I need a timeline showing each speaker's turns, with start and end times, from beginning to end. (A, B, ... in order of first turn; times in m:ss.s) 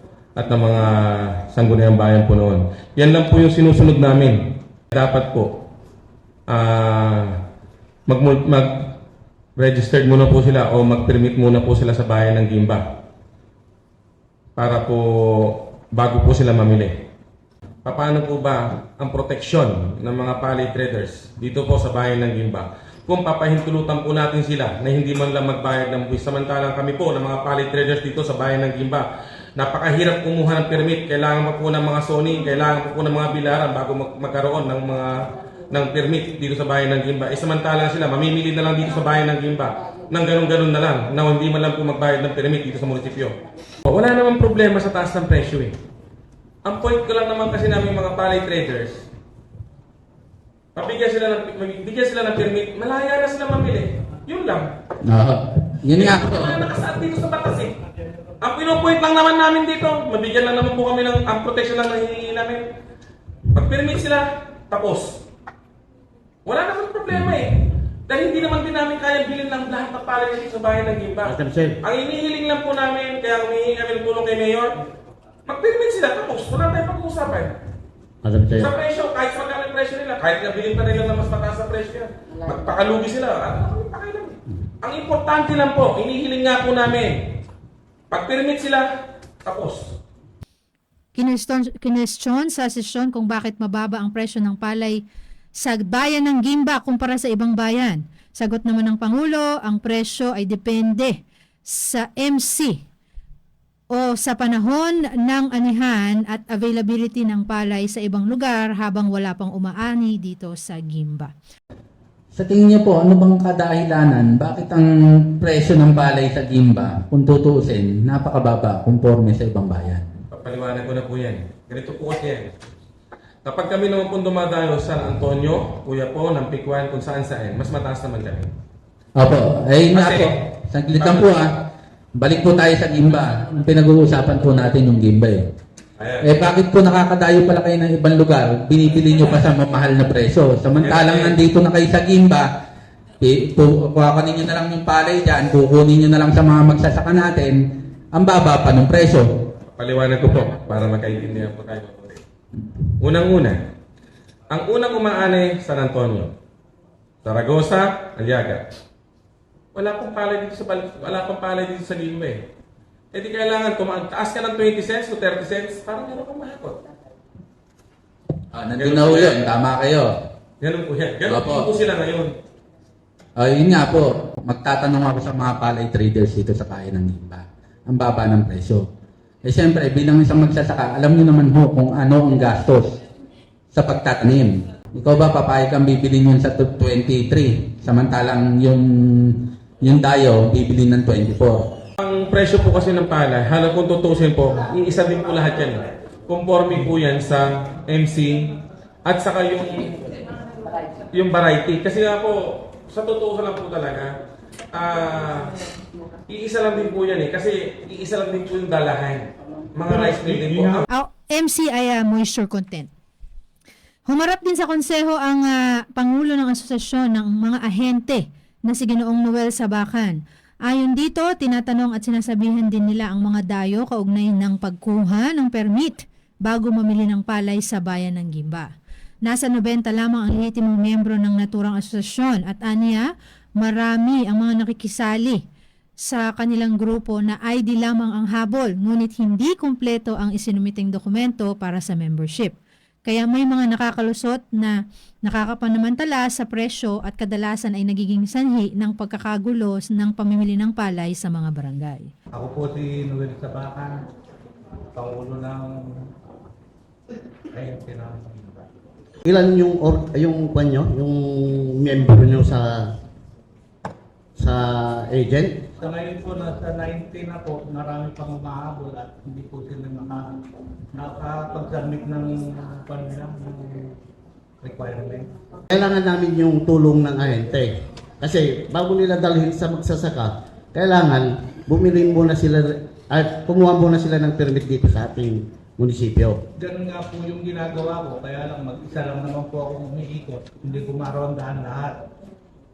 0:00.4-0:05.7 A
0:06.5-0:07.4 A
0:08.1-0:09.0 A
0:09.6-0:13.0 A
0:14.6-0:17.1 A
0:17.8-0:45.8 A
0:46.6-0:49.1 A
0:50.8-0:54.8 A
0:55.0-0:56.7 B
0:55.9-0:57.8 A
0:58.4-1:02.7 A
1:03.5-1:05.2 A
1:06.4-1:14.8 A
1:11.2-1:11.8 C
1:15.4-1:17.5 A
1:18.2-1:18.8 C
1:18.6-1:27.3 A
1:28.1-1:28.9 A
1:29.4-1:30.0 A
1:31.1-1:35.0 D
1:35.6-1:42.8 D
1:43.9-1:51.3 D
1:52.3-2:00.1 B
2:00.3-2:02.5 A
2:03.4-2:08.5 A
2:09.2-2:15.4 B
2:09.9-2:10.4 A
2:11.0-2:11.4 A
2:16.0-2:16.4 A
2:16.2-2:22.5 B
2:20.8-2:21.4 A
2:23.2-2:29.5 B
2:29.7-2:32.2 A
2:33.0-2:33.6 A
2:34.5-2:36.3 A
2:37.2-2:38.7 A
2:39.8-2:42.5 A
2:43.1-2:46.8 A
2:48.5-2:50.2 B
2:48.8-2:49.4 A
2:50.6-2:52.4 A
2:51.3-2:51.7 B
2:53.4-2:58.9 B
2:59.4-3:03.0 B
3:03.7-3:11.8 B
3:12.0-3:20.1 A
3:21.1-3:24.2 A
3:24.7-3:25.6 A
3:26.3-3:30.9 A
3:29.9-3:30.8 E
3:30.9-3:32.9 D
3:34.1-3:48.7 D
3:49.3-3:55.4 D
3:56.0-4:12.1 D
4:12.3-4:14.0 E
4:14.9-4:16.1 E
4:17.5-4:18.7 E
4:19.2-4:22.9 C
4:24.4-4:25.6 C
4:25.8-4:30.4 E
4:30.9-4:33.9 E
4:34.6-4:35.3 E
4:35.7-4:46.4 C
4:46.6-4:52.0 E